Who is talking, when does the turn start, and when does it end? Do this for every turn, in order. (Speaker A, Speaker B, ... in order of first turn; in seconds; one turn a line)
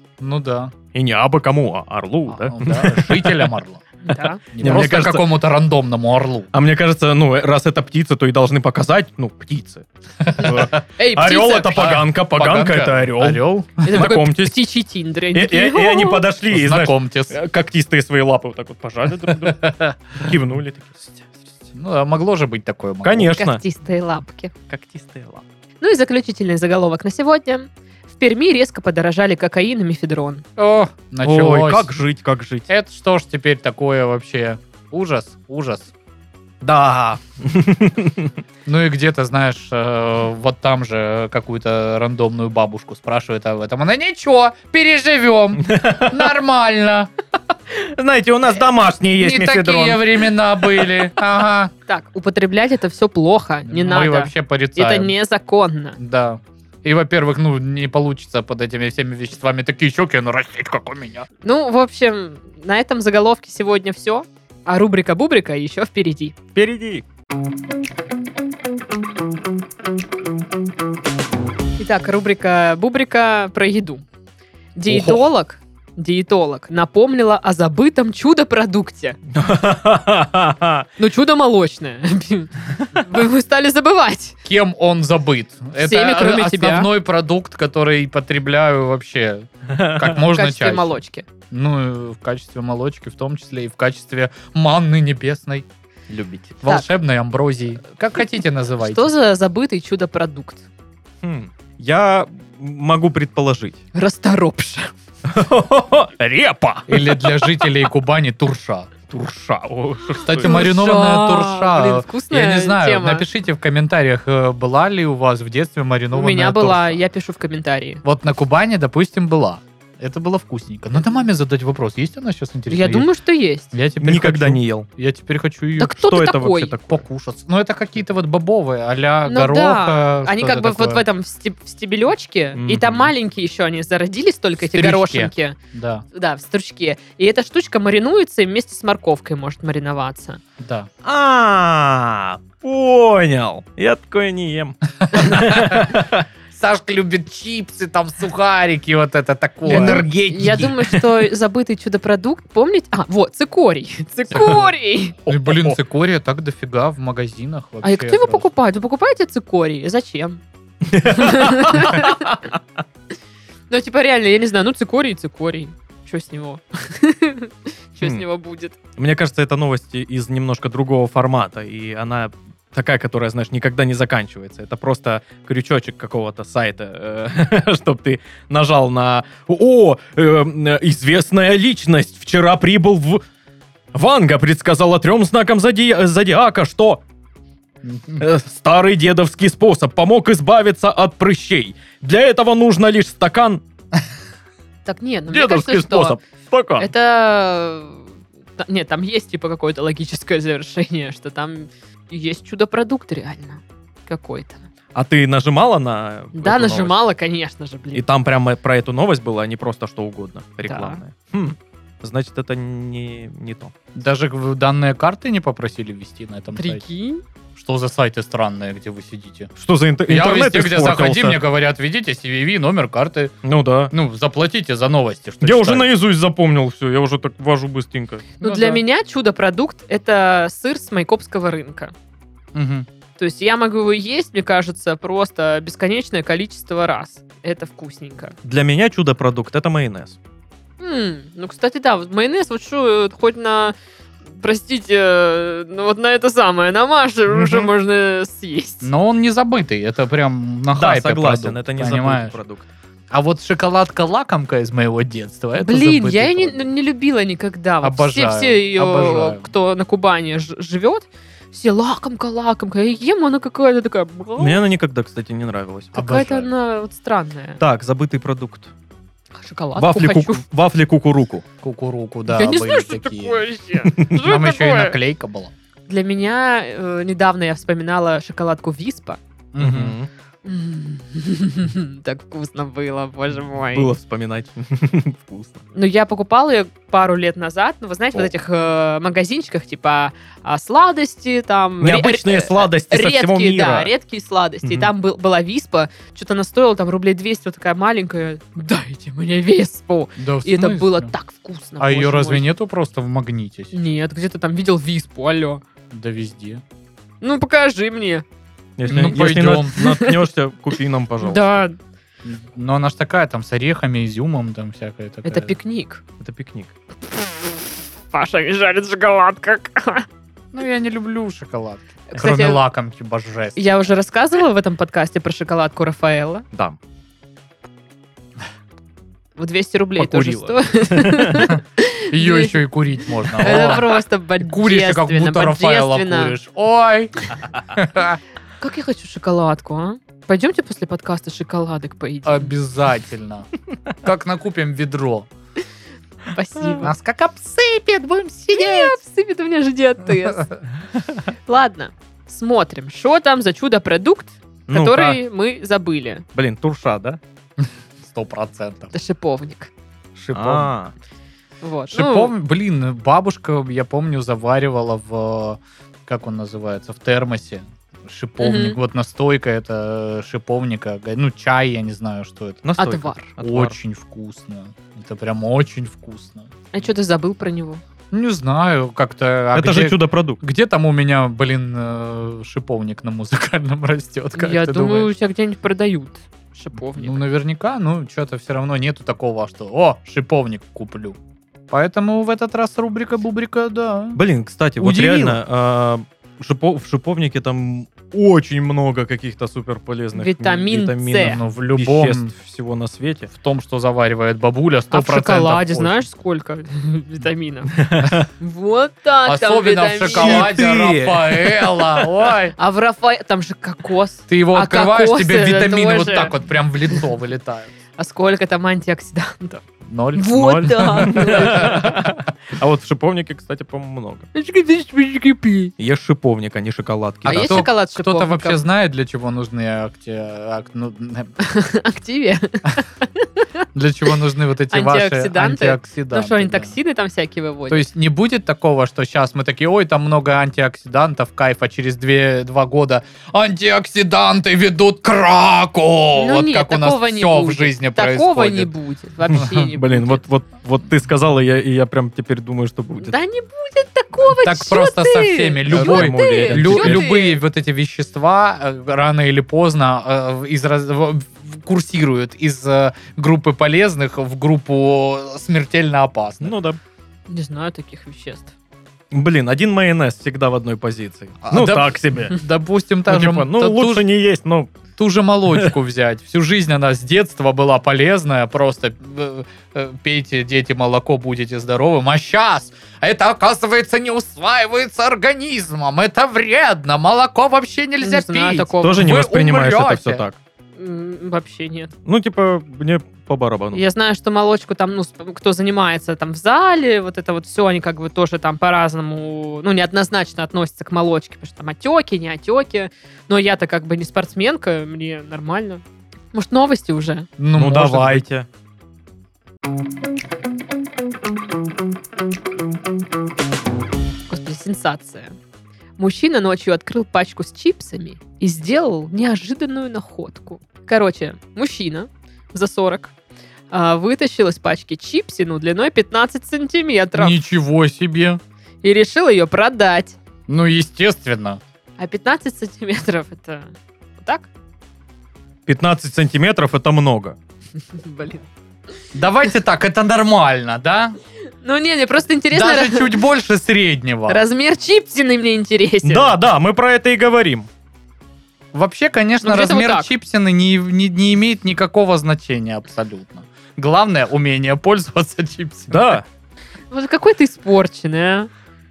Speaker A: 0.2-0.7
Speaker B: 0.9-3.5
Speaker A: 2.3-3.8
Speaker C: 4.0-4.4
Speaker A: 4.5-6.5
Speaker B: 4.5-5.3
Speaker B: 6.5-14.6
Speaker A: 10.2-10.8
Speaker C: 11.0-12.0
Speaker A: 11.7-14.0
Speaker C: 13.8-16.2
Speaker B: 15.3-21.6
Speaker A: 16.5-17.4
Speaker A: 19.4-20.3
Speaker A: 21.7-23.3
Speaker B: 23.0-23.6
Speaker C: 23.3-24.5
Speaker B: 24.7-25.4
Speaker C: 25.8-30.4
Speaker A: 30.6-31.9
Speaker B: 31.2-32.7
Speaker A: 32.7-35.9
Speaker B: 36.6-38.3
Speaker A: 38.6-47.1
Speaker B: 45.6-46.3
Speaker B: 47.7-50.9
Speaker A: 49.2-51.7
Speaker C: 51.9-56.0
Speaker A: 53.6-55.1
Speaker A: 56.0-61.3
Speaker C: 61.4-66.4
Speaker B: 66.5-67.0
Speaker C: 71.8-74.0
Speaker C: 74.8-79.2
Speaker A: 74.9-75.2
Speaker B: 79.3-80.8
Speaker C: 81.0-84.4
Speaker A: 84.4-91.0
Speaker C: 85.8-86.9
Speaker B: 89.7-90.2
Speaker C: 90.2-91.2
Speaker A: 91.5-95.7
Speaker B: 96.1-96.6
Speaker A: 96.6-99.1
Speaker C: 98.8-100.6
Speaker B: 101.2-103.8
Speaker C: 103.9-104.9
Speaker B: 105.2-107.7
Speaker A: 106.9-108.9
Speaker B: 109.1-110.6
Speaker A: 110.2-117.0
Speaker C: 110.4-113.2
Speaker C: 116.1-118.0
Speaker A: 118.0-123.1
Speaker C: 122.7-123.7
Speaker A: 123.7-125.9
Speaker B: 124.0-124.9
Speaker C: 125.8-126.7
Speaker B: 125.9-127.0
Speaker A: 126.9-131.0
Speaker C: 129.3-135.6
Speaker B: 132.6-133.1
Speaker A: 134.6-136.0
Speaker C: 136.1-140.4
Speaker A: 140.6-140.9
Speaker B: 141.0-146.2
Speaker A: 145.0-146.0
Speaker A: 146.5-150.7
Speaker B: 149.7-151.3
Speaker C: 149.7-155.2
Speaker A: 154.3-154.7
Speaker B: 154.3-154.6
Speaker B: 155.2-155.8
Speaker A: 155.2-158.5
Speaker C: 157.8-160.4
Speaker B: 160.8-162.4
Speaker C: 161.0-162.3
Speaker C: 163.7-168.7
Speaker B: 169.0-183.2
Speaker B: 183.9-187.0
Speaker A: 187.8-188.2
Speaker B: 188.2-193.6
Speaker C: 194.8-196.2
Speaker B: 195.3-196.9
Speaker C: 196.8-204.7
Speaker B: 204.9-207.0
Speaker C: 206.3-208.0
Speaker B: 207.9-213.7
Speaker C: 210.7-211.0
Speaker A: 213.9-216.8
Speaker C: 216.6-217.2
Speaker A: 217.5-219.5
Speaker B: 219.6-221.4
Speaker A: 220.1-223.3
Speaker B: 223.4-223.9
Speaker A: 223.9-225.9
Speaker B: 225.4-228.3
Speaker C: 228.4-231.9
Speaker A: 228.4-228.8
Speaker A: 232.5-232.9
Speaker C: 233.2-238.3
Speaker B: 238.4-240.2
Speaker C: 240.8-243.8
Speaker C: 244.4-248.9
Speaker A: 248.8-252.3
Speaker B: 250.7-252.7
Speaker A: 253.1-256.7
Speaker C: 255.6-264.6
Speaker A: 257.8-259.5
Speaker B: 264.4-265.9
Speaker A: 265.9-266.5
Speaker C: 265.9-267.6
Speaker B: 267.6-268.7
Speaker C: 269.3-270.4
Speaker B: 269.8-271.4
Speaker A: 271.6-273.4
Speaker C: 272.3-274.9
Speaker A: 274.1-275.5
Speaker C: 275.9-279.2
Speaker A: 279.5-280.0
Speaker B: 279.6-280.1
Speaker C: 280.4-283.9
Speaker B: 283.7-285.6
Speaker C: 285.7-302.5
Speaker B: 291.8-293.9
Speaker B: 294.6-294.9
Speaker A: 300.2-301.1
Speaker A: 301.8-303.7
Speaker C: 303.7-305.6
Speaker A: 305.9-306.6
Speaker C: 307.2-308.2
Speaker B: 308.8-311.6
Speaker A: 308.9-309.8
Speaker C: 309.8-310.2
Speaker C: 311.2-311.8
Speaker A: 312.2-315.5
Speaker C: 315.2-316.0
Speaker B: 316.2-316.7
Speaker C: 318.1-320.1
Speaker A: 320.5-323.7
Speaker C: 322.1-322.6
Speaker C: 323.6-326.4
Speaker C: 329.4-332.6
Speaker B: 330.0-331.5
Speaker A: 332.1-333.9
Speaker C: 333.4-336.4
Speaker B: 333.4-333.9
Speaker A: 334.4-337.1
Speaker A: 337.7-338.2
Speaker C: 338.6-342.5
Speaker A: 342.2-343.5
Speaker A: 344.0-345.3
Speaker C: 346.3-346.9
Speaker A: 346.8-349.0
Speaker C: 348.5-350.5
Speaker C: 351.5-356.2
Speaker B: 354.7-355.2
Speaker B: 356.3-357.2
Speaker A: 357.6-358.9
Speaker C: 358.9-359.7
Speaker A: 360.2-360.7
Speaker B: 360.2-360.9
Speaker C: 361.6-362.3
Speaker A: 361.9-372.6
Speaker C: 368.4-368.8
Speaker B: 372.6-373.8
Speaker C: 372.8-373.3
Speaker A: 373.4-376.5
Speaker C: 376.7-377.8
Speaker A: 378.1-385.1
Speaker B: 379.5-380.4
Speaker C: 384.3-387.2
Speaker A: 386.9-391.2
Speaker A: 391.7-394.2
Speaker B: 394.1-403.3
Speaker A: 394.8-395.4
Speaker C: 400.1-401.4
Speaker A: 401.2-402.3
Speaker A: 403.3-406.0
Speaker C: 404.9-407.8
Speaker B: 407.7-408.3
Speaker C: 408.4-410.6
Speaker A: 409.2-412.5
Speaker B: 410.0-412.2
Speaker C: 412.6-416.3
Speaker A: 414.3-417.7
Speaker C: 418.0-419.6
Speaker A: 419.9-422.1
Speaker C: 420.1-421.9
Speaker B: 420.4-424.3
Speaker C: 424.3-425.7
Speaker B: 425.8-427.7
Speaker A: 427.2-431.3
Speaker C: 427.3-428.6
Speaker C: 431.4-433.4
Speaker A: 433.7-436.7
Speaker C: 434.7-437.9
Speaker A: 437.7-448.7
Speaker C: 446.1-450.2
Speaker B: 449.3-453.1
Speaker C: 453.0-457.4
Speaker A: 454.3-466.5
Speaker B: 455.7-457.1
Speaker B: 466.4-466.8
Speaker C: 467.3-468.5
Speaker B: 469.1-472.4
Speaker A: 471.4-474.0
Speaker B: 473.1-474.7
Speaker A: 475.0-490.2
Speaker C: 488.0-489.1
Speaker B: 488.8-490.4
Speaker C: 490.8-491.9
Speaker B: 492.1-493.8
Speaker C: 493.7-507.3
Speaker A: 507.4-508.2
Speaker B: 507.5-508.5
Speaker C: 514.3-515.4
Speaker C: 516.0-523.1
Speaker C: 523.7-527.4
Speaker A: 527.1-528.4
Speaker C: 528.8-530.2
Speaker A: 530.5-531.6
Speaker C: 532.0-534.5
Speaker B: 535.7-537.4
Speaker C: 537.8-538.5
Speaker A: 539.1-541.2
Speaker C: 541.6-543.2
Speaker A: 542.5-544.4
Speaker C: 544.3-546.4
Speaker B: 546.0-547.7
Speaker A: 548.7-556.2
Speaker C: 549.4-550.1
Speaker B: 555.9-556.2
Speaker C: 556.9-558.5